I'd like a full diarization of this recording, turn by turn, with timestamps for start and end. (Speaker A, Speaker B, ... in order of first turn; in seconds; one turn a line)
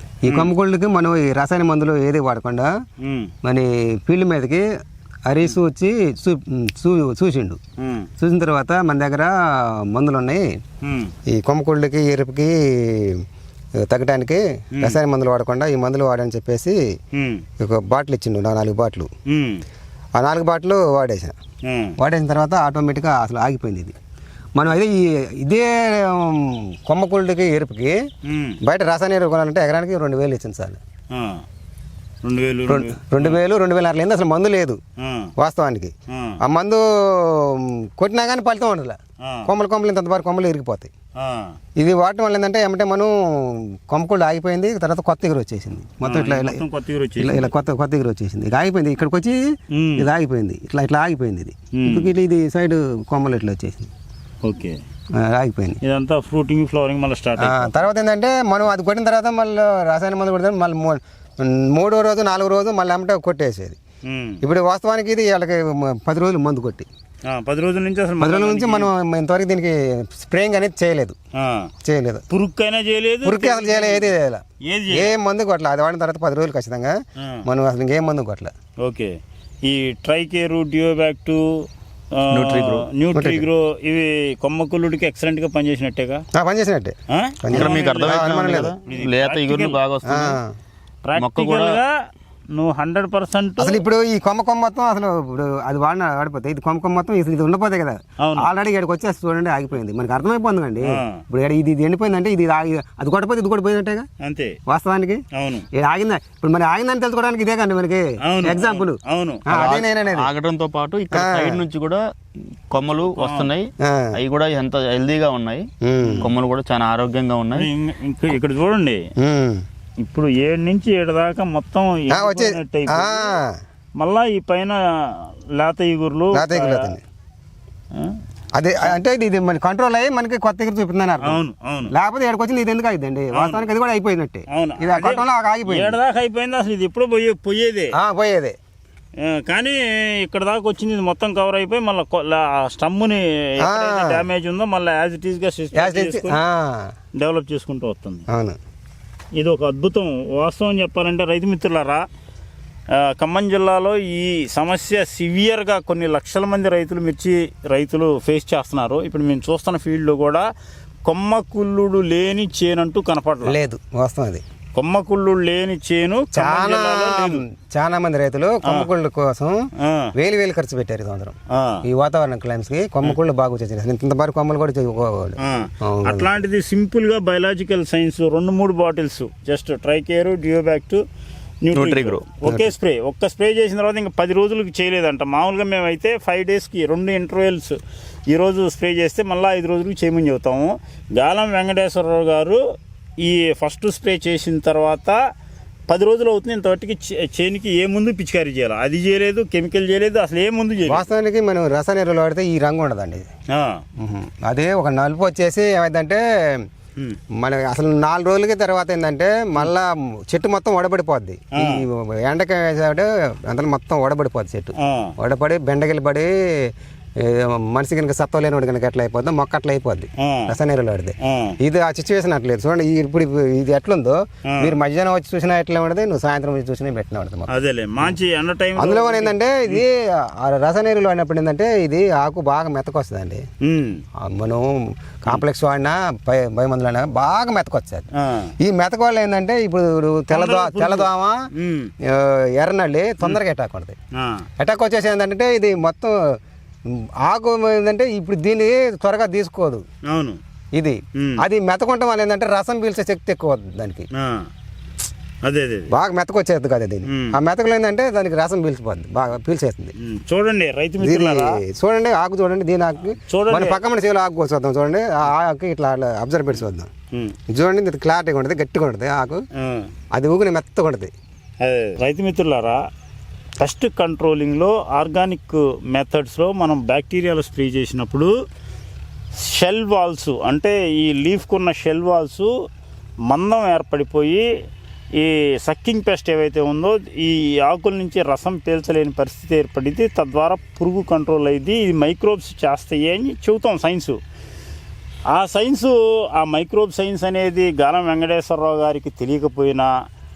Speaker A: 0.2-2.7
Speaker B: 0.2-0.5
Speaker B: 3.0-3.3
Speaker A: 3.4-4.7
Speaker A: 5.2-7.6
Speaker B: 7.8-8.1
Speaker A: 8.2-10.6
Speaker B: 10.8-11.1
Speaker A: 11.3-13.2
Speaker A: 13.8-16.8
Speaker B: 17.1-17.4
Speaker A: 17.6-19.1
Speaker B: 19.3-19.6
Speaker A: 20.1-21.3
Speaker B: 21.6-21.9
Speaker A: 22.0-23.9
Speaker A: 24.5-28.0
Speaker B: 28.2-28.6
Speaker A: 28.6-30.8
Speaker B: 31.1-31.4
Speaker B: 32.2-33.4
Speaker A: 32.7-34.8
Speaker B: 35.0-35.3
Speaker A: 35.4-40.9
Speaker B: 36.1-36.4
Speaker B: 39.2-39.5
Speaker B: 41.2-41.5
Speaker A: 41.8-46.6
Speaker B: 46.0-47.5
Speaker A: 47.2-49.4
Speaker B: 49.7-50.1
Speaker A: 50.0-53.9
Speaker B: 51.7-52.1
Speaker B: 54.4-54.8
Speaker A: 55.1-55.8
Speaker B: 55.8-57.9
Speaker A: 57.4-63.8
Speaker B: 64.0-64.4
Speaker A: 64.4-66.8
Speaker B: 67.3-68.9
Speaker A: 68.2-71.2
Speaker B: 71.3-71.7
Speaker A: 71.8-72.2
Speaker B: 72.3-74.1
Speaker A: 73.2-78.5
Speaker B: 74.6-75.1
Speaker B: 78.8-86.2
Speaker C: 82.3-82.9
Speaker A: 83.1-83.5
Speaker A: 86.3-88.7
Speaker B: 87.1-89.8
Speaker C: 87.5-90.4
Speaker A: 90.0-90.5
Speaker B: 91.0-93.8
Speaker C: 91.2-91.8
Speaker A: 93.6-104.1
Speaker B: 98.2-98.5
Speaker B: 100.8-101.2
Speaker B: 104.2-104.6
Speaker A: 104.7-110.3
Speaker B: 105.3-105.7
Speaker B: 108.2-109.4
Speaker C: 109.5-112.0
Speaker A: 111.1-111.6
Speaker C: 112.7-115.6
Speaker B: 113.2-113.5
Speaker A: 113.8-114.2
Speaker A: 115.8-116.3
Speaker B: 116.0-116.3
Speaker C: 116.2-117.7
Speaker B: 117.5-119.0
Speaker A: 119.2-119.6
Speaker B: 120.0-123.3
Speaker A: 122.1-123.6
Speaker B: 124.0-127.0
Speaker A: 126.3-127.0
Speaker A: 128.5-136.0
Speaker B: 131.2-131.9
Speaker B: 133.3-133.7
Speaker B: 134.5-137.9
Speaker A: 137.9-138.6
Speaker B: 139.2-146.4
Speaker A: 143.6-144.2
Speaker A: 145.7-146.9
Speaker B: 147.1-148.2
Speaker A: 148.3-148.6
Speaker B: 149.4-152.0
Speaker B: 152.9-160.5
Speaker B: 161.1-163.6
Speaker A: 163.4-164.4
Speaker B: 164.7-167.4
Speaker A: 166.3-169.6
Speaker B: 168.6-168.9
Speaker B: 169.8-170.1
Speaker A: 170.2-176.3
Speaker B: 171.5-171.8
Speaker B: 175.4-181.0
Speaker B: 181.6-187.8
Speaker C: 181.7-182.3
Speaker A: 182.4-182.7
Speaker B: 188.3-192.6
Speaker B: 193.2-195.2
Speaker B: 195.9-201.1
Speaker A: 200.8-203.3
Speaker B: 203.5-203.8
Speaker A: 204.0-206.6
Speaker A: 207.4-228.2
Speaker B: 211.6-211.8
Speaker B: 214.8-215.1
Speaker B: 220.2-220.5
Speaker B: 221.2-221.6
Speaker B: 224.5-224.7
Speaker B: 227.5-229.8
Speaker A: 228.8-233.4
Speaker B: 233.6-234.0
Speaker A: 234.2-238.1
Speaker B: 238.2-238.5
Speaker A: 238.6-241.4
Speaker B: 240.3-241.9
Speaker A: 242.0-243.9
Speaker B: 244.2-244.5
Speaker A: 244.6-246.4
Speaker A: 246.9-249.8
Speaker B: 250.1-250.4
Speaker A: 250.7-254.1
Speaker B: 251.2-251.4
Speaker B: 254.1-254.5
Speaker B: 255.4-255.9
Speaker A: 255.9-259.9
Speaker B: 257.1-257.4
Speaker B: 260.0-261.6
Speaker A: 261.0-266.9
Speaker B: 263.1-263.8
Speaker A: 267.5-269.4
Speaker B: 269.6-269.9
Speaker A: 270.1-271.1
Speaker B: 271.6-272.8
Speaker B: 273.6-278.3
Speaker B: 279.4-282.5
Speaker B: 283.3-284.4
Speaker B: 285.2-294.2
Speaker B: 295.3-299.9